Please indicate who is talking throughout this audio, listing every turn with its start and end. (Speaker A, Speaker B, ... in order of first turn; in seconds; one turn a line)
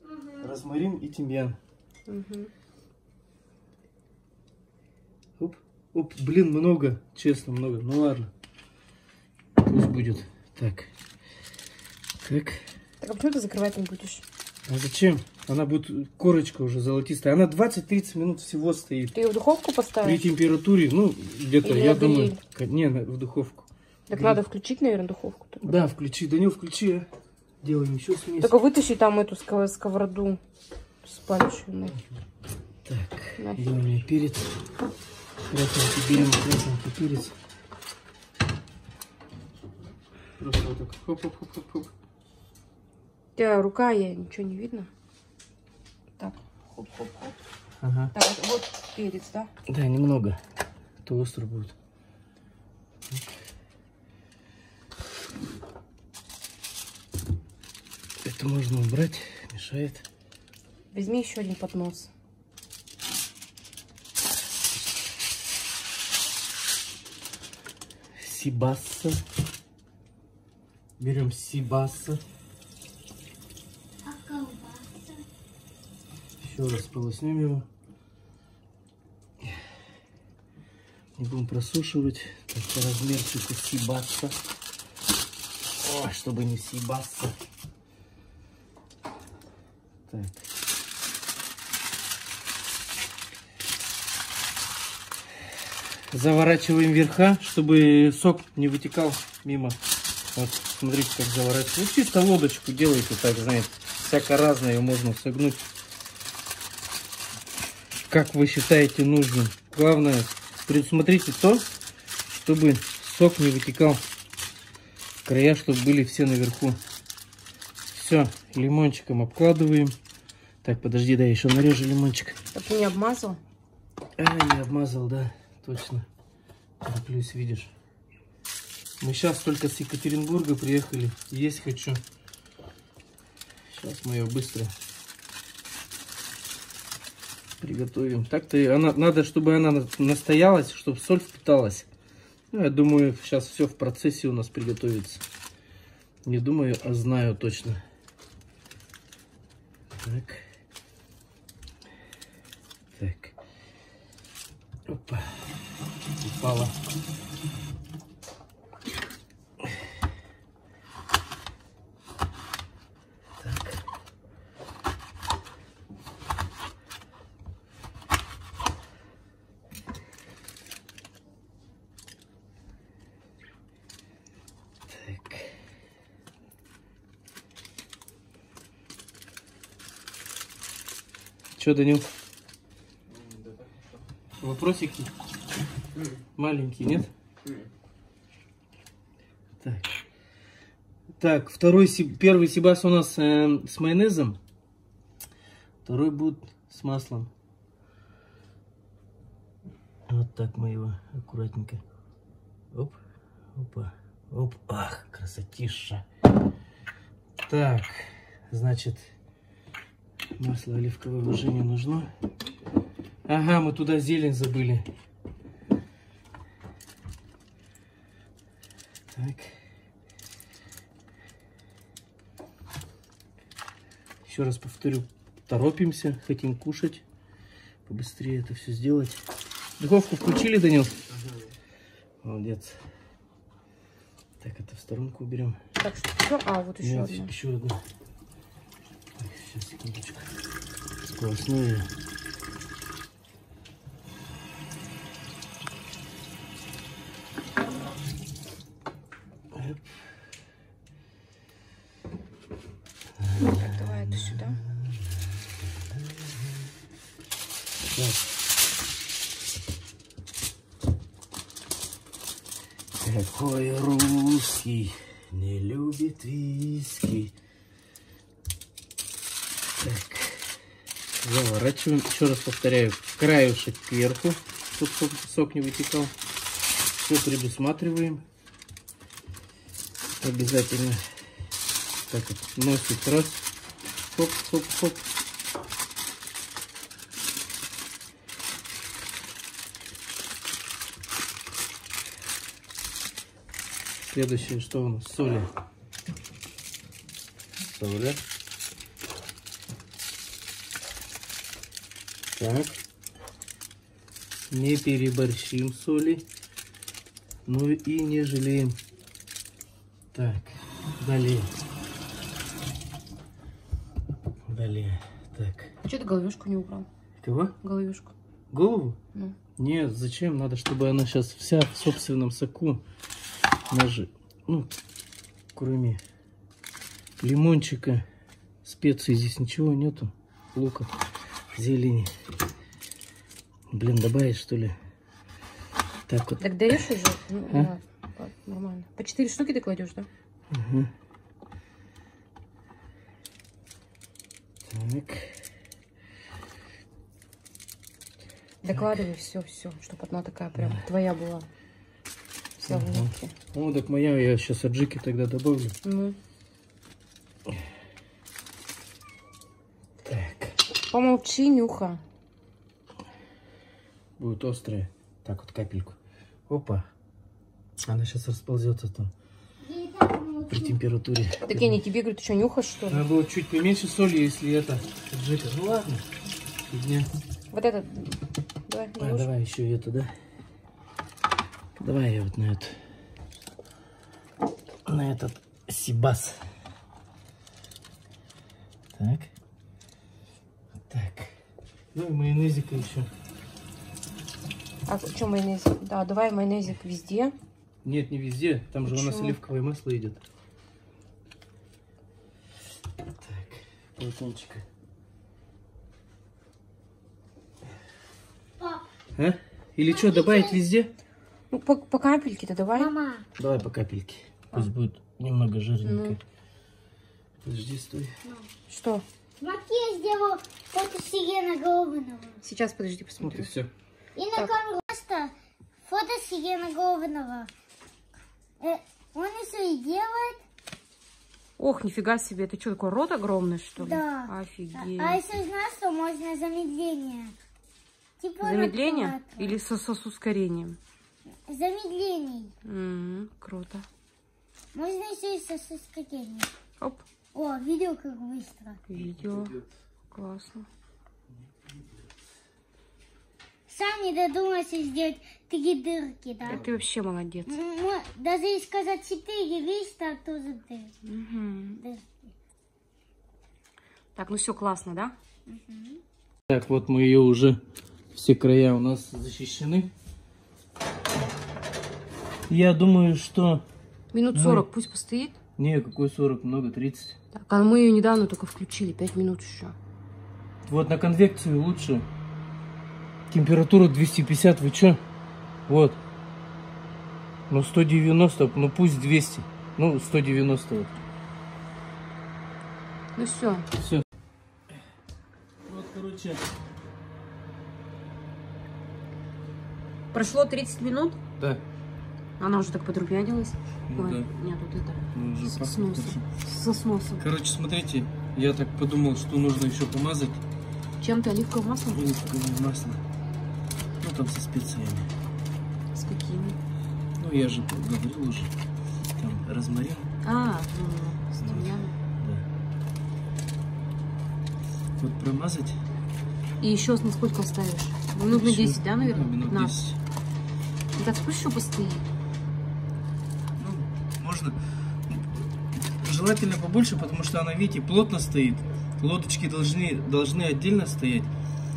Speaker A: 0.4-1.6
Speaker B: 2.1-2.5
Speaker A: 5.4-8.3
Speaker A: 9.6-10.9
Speaker A: 12.2-12.6
Speaker B: 13.0-14.2
Speaker A: 14.7-19.1
Speaker B: 19.1-20.2
Speaker A: 20.0-24.4
Speaker B: 21.6-22.4
Speaker B: 24.1-25.8
Speaker A: 25.6-27.1
Speaker A: 27.6-28.5
Speaker B: 28.4-30.4
Speaker B: 31.0-32.0
Speaker A: 32.8-34.6
Speaker B: 33.4-33.7
Speaker A: 35.5-37.4
Speaker A: 40.4-41.9
Speaker B: 43.4-44.9
Speaker B: 46.2-47.4
Speaker A: 47.8-48.1
Speaker B: 48.1-49.5
Speaker A: 49.7-50.4
Speaker A: 51.0-51.7
Speaker A: 53.1-53.3
Speaker A: 58.2-60.0
Speaker B: 60.9-62.1
Speaker A: 68.1-69.2
Speaker A: 71.0-72.2
Speaker C: 74.0-75.2
Speaker A: 76.4-77.7
Speaker A: 81.2-84.4
Speaker A: 85.8-87.4
Speaker A: 90.1-90.4
Speaker A: 96.1-99.8
Speaker A: 100.3-105.7
Speaker A: 108.1-111.7
Speaker A: 112.3-114.0
Speaker A: 115.2-116.8
Speaker A: 117.9-120.0
Speaker A: 120.6-122.4
Speaker B: 122.5-123.4
Speaker A: 124.2-126.0
Speaker A: 126.8-127.7
Speaker A: 129.0-132.0
Speaker A: 133.7-134.7
Speaker A: 137.6-141.9
Speaker A: 142.5-145.2
Speaker A: 146.2-147.8
Speaker A: 150.0-150.4
Speaker A: 152.9-153.3
Speaker A: 154.9-155.4
Speaker A: 156.2-156.8
Speaker A: 163.4-163.8
Speaker A: 174.9-175.6
Speaker A: 181.6-182.1
Speaker A: 184.4-185.1
Speaker A: 186.3-187.1
Speaker A: 189.6-189.9
Speaker A: 191.2-194.4
Speaker A: 195.8-197.3
Speaker A: 200.1-201.8
Speaker A: 202.7-203.0
Speaker A: 203.5-206.0
Speaker A: 207.4-209.1
Speaker A: 210.4-212.1
Speaker A: 213.3-214.8
Speaker A: 219.1-219.6
Speaker A: 224.2-227.0
Speaker A: 227.8-229.2
Speaker A: 229.8-231.0
Speaker A: 232.2-232.8
Speaker A: 234.4-235.6
Speaker B: 235.8-237.3
Speaker A: 236.8-237.8
Speaker A: 239.2-240.3
Speaker A: 241.0-241.9
Speaker A: 249.5-250.0
Speaker A: 253.2-256.3
Speaker B: 253.4-254.6
Speaker A: 257.9-258.4
Speaker A: 263.0-267.3
Speaker A: 269.8-270.5
Speaker A: 271.2-276.1
Speaker A: 277.0-278.2
Speaker A: 280.2-281.0
Speaker A: 282.1-283.4
Speaker A: 284.1-285.1
Speaker A: 294.1-295.5
Speaker A: 297.6-298.2
Speaker A: 302.4-302.8
Speaker A: 304.5-306.2
Speaker A: 307.4-308.8
Speaker A: 310.1-311.5
Speaker A: 314.5-315.7
Speaker B: 315.8-316.9
Speaker A: 317.2-317.6
Speaker B: 317.6-318.1
Speaker A: 318.5-319.0
Speaker A: 319.6-322.8
Speaker A: 323.7-324.8
Speaker A: 325.5-326.0
Speaker A: 327.2-328.0
Speaker A: 328.6-330.9
Speaker A: 331.5-332.1
Speaker A: 333.7-334.7
Speaker A: 336.1-336.9
Speaker B: 336.4-340.1
Speaker A: 340.5-340.9
Speaker A: 344.6-345.4
Speaker B: 348.6-351.5
Speaker A: 348.7-349.1
Speaker A: 350.5-350.8
Speaker A: 352.6-355.8
Speaker B: 352.6-353.3
Speaker B: 355.8-356.2
Speaker A: 360.0-360.6
Speaker B: 360.9-362.0
Speaker A: 364.2-366.0
Speaker A: 366.5-366.9
Speaker A: 367.8-369.1
Speaker C: 369.6-370.8
Speaker A: 370.5-371.8
Speaker B: 371.4-373.0
Speaker A: 372.9-376.1
Speaker A: 376.7-377.1
Speaker B: 377.5-379.3
Speaker A: 379.0-380.1
Speaker A: 381.8-382.8
Speaker A: 384.9-386.5
Speaker A: 388.9-389.3
Speaker A: 390.9-391.4
Speaker A: 391.9-393.1
Speaker B: 394.9-397.3
Speaker A: 397.8-400.2
Speaker B: 398.8-399.4
Speaker A: 403.0-404.6
Speaker C: 408.6-408.8
Speaker A: 409.1-410.9
Speaker C: 409.9-410.6
Speaker B: 411.5-412.9
Speaker C: 412.8-413.2
Speaker A: 413.4-416.2
Speaker B: 415.8-416.2
Speaker A: 417.4-418.1
Speaker B: 418.7-419.0
Speaker C: 419.4-422.4
Speaker B: 422.4-423.5
Speaker A: 423.2-423.7
Speaker C: 424.1-425.3
Speaker C: 425.8-427.5
Speaker C: 428.6-430.4
Speaker B: 431.6-435.2
Speaker C: 433.8-437.3
Speaker C: 438.2-439.6
Speaker B: 438.4-440.8
Speaker C: 441.5-442.5
Speaker B: 442.6-443.9
Speaker C: 444.7-446.5
Speaker B: 446.8-447.1
Speaker C: 447.3-448.8
Speaker B: 448.9-449.6
Speaker A: 448.9-449.6
Speaker B: 450.1-450.7
Speaker A: 451.4-451.9
Speaker C: 453.7-456.6
Speaker B: 456.4-457.5
Speaker A: 456.5-456.8
Speaker C: 457.5-460.9
Speaker B: 461.0-461.8
Speaker C: 461.8-462.1
Speaker B: 464.1-465.1
Speaker C: 465.5-466.0
Speaker A: 466.5-467.6
Speaker A: 468.1-469.9
Speaker A: 472.5-473.6
Speaker B: 474.1-475.4
Speaker A: 474.3-474.7
Speaker A: 475.6-477.1
Speaker B: 477.3-479.8
Speaker A: 480.7-482.1
Speaker A: 483.3-485.0
Speaker A: 485.7-486.0
Speaker A: 487.5-490.9
Speaker B: 493.1-493.7
Speaker A: 493.8-494.0
Speaker A: 495.6-496.4
Speaker B: 500.1-501.2
Speaker B: 502.4-507.3
Speaker A: 503.9-504.3
Speaker A: 505.1-506.2
Speaker A: 507.2-510.4
Speaker B: 511.0-512.1
Speaker A: 511.9-513.0
Speaker A: 514.0-515.1
Speaker B: 515.9-516.6
Speaker A: 517.2-518.5
Speaker A: 519.2-520.1
Speaker B: 520.2-521.9
Speaker A: 521.4-522.5
Speaker A: 525.0-525.8
Speaker B: 526.6-529.8
Speaker A: 528.2-530.0
Speaker B: 530.9-532.0
Speaker A: 533.6-541.3